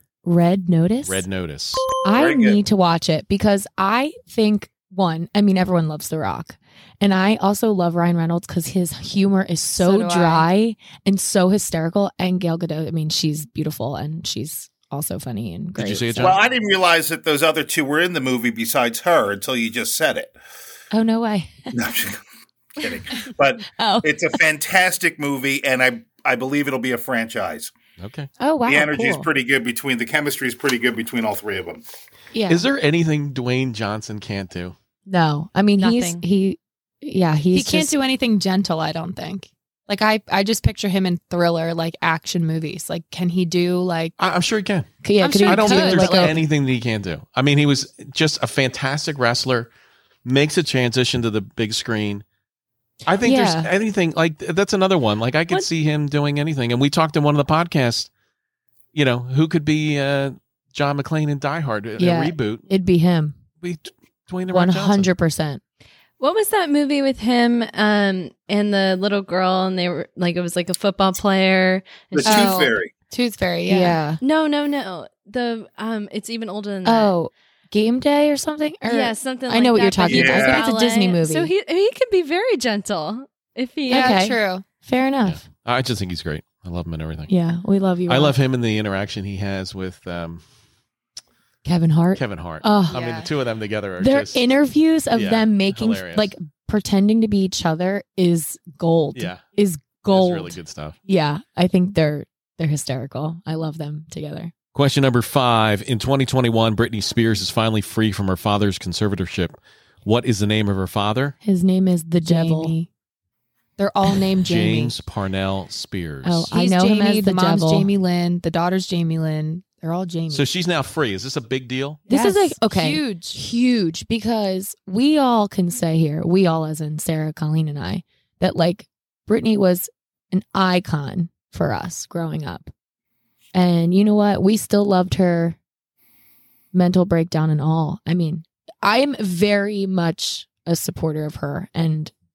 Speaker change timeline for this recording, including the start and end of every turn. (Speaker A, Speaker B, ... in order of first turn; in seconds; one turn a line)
Speaker A: 0.2-1.2
Speaker B: 1.1-1.9
Speaker A: 2.0-16.4
Speaker C: 2.1-2.6
Speaker D: 9.8-10.5
Speaker B: 15.8-16.4
Speaker C: 16.2-20.3
Speaker A: 20.9-21.7
Speaker C: 21.7-22.2
Speaker C: 22.8-27.7
Speaker A: 23.8-24.1
Speaker B: 28.0-28.3
Speaker A: 28.4-29.3
Speaker C: 28.7-31.8
Speaker A: 32.3-32.7
Speaker B: 32.5-34.8
Speaker A: 35.1-37.9
Speaker E: 35.8-36.2
Speaker D: 37.5-44.2
Speaker B: 44.2-44.9
Speaker A: 45.0-46.4
Speaker D: 45.2-46.4
Speaker B: 45.4-49.7
Speaker B: 50.2-52.2
Speaker B: 53.1-58.1
Speaker A: 53.2-53.7
Speaker B: 58.9-62.7
Speaker A: 62.0-63.4
Speaker B: 63.6-65.1
Speaker A: 64.5-65.6
Speaker E: 66.2-72.6
Speaker C: 72.1-72.9
Speaker D: 72.2-74.0
Speaker A: 73.7-74.2
Speaker E: 74.2-77.1
Speaker A: 76.8-81.5
Speaker E: 78.9-84.3
Speaker C: 80.0-80.7
Speaker D: 83.9-84.6
Speaker A: 83.9-85.4
Speaker B: 85.2-87.3
Speaker A: 87.3-88.4
Speaker B: 88.1-90.4
Speaker A: 91.6-93.0
Speaker B: 92.1-94.5
Speaker D: 92.9-93.3
Speaker A: 94.0-104.5
Speaker B: 95.1-96.3
Speaker B: 99.1-99.4
Speaker B: 100.1-101.0
Speaker B: 104.7-111.4
Speaker A: 111.4-112.8
Speaker D: 112.2-112.9
Speaker D: 113.8-115.0
Speaker B: 114.4-116.5
Speaker A: 116.2-117.9
Speaker D: 116.5-120.5
Speaker B: 120.3-122.0
Speaker D: 122.1-123.4
Speaker A: 122.1-132.7
Speaker A: 133.5-135.6
Speaker A: 136.7-142.1